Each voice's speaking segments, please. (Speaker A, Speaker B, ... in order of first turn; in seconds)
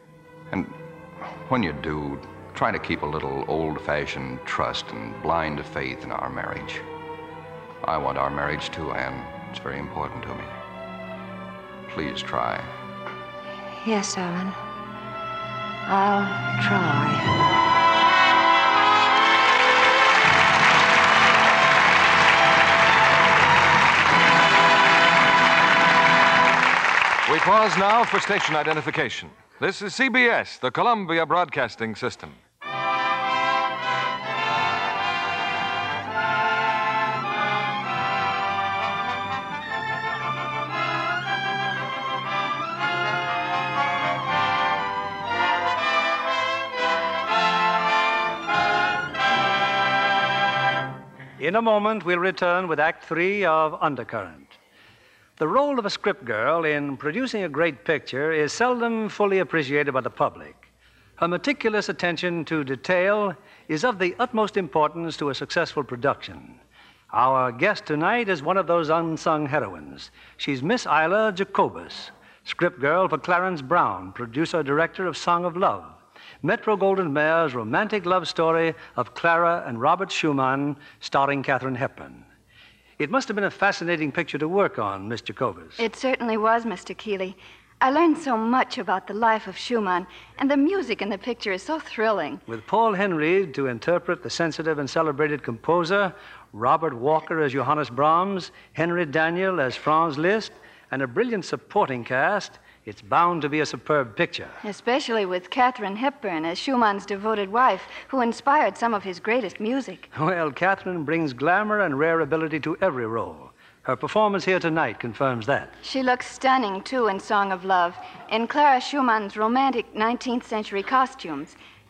Speaker A: 0.5-6.8, 7.8-10.5, 11.9-12.7
Speaker B: 13.7-14.6, 15.9-17.3
Speaker C: 27.3-32.4
Speaker D: 51.4-54.5, 55.4-60.6, 61.2-66.6, 67.1-82.2, 83.0-85.8, 92.5-104.6, 110.1-115.8
Speaker E: 85.8-92.4, 104.6-110.1, 115.8-121.6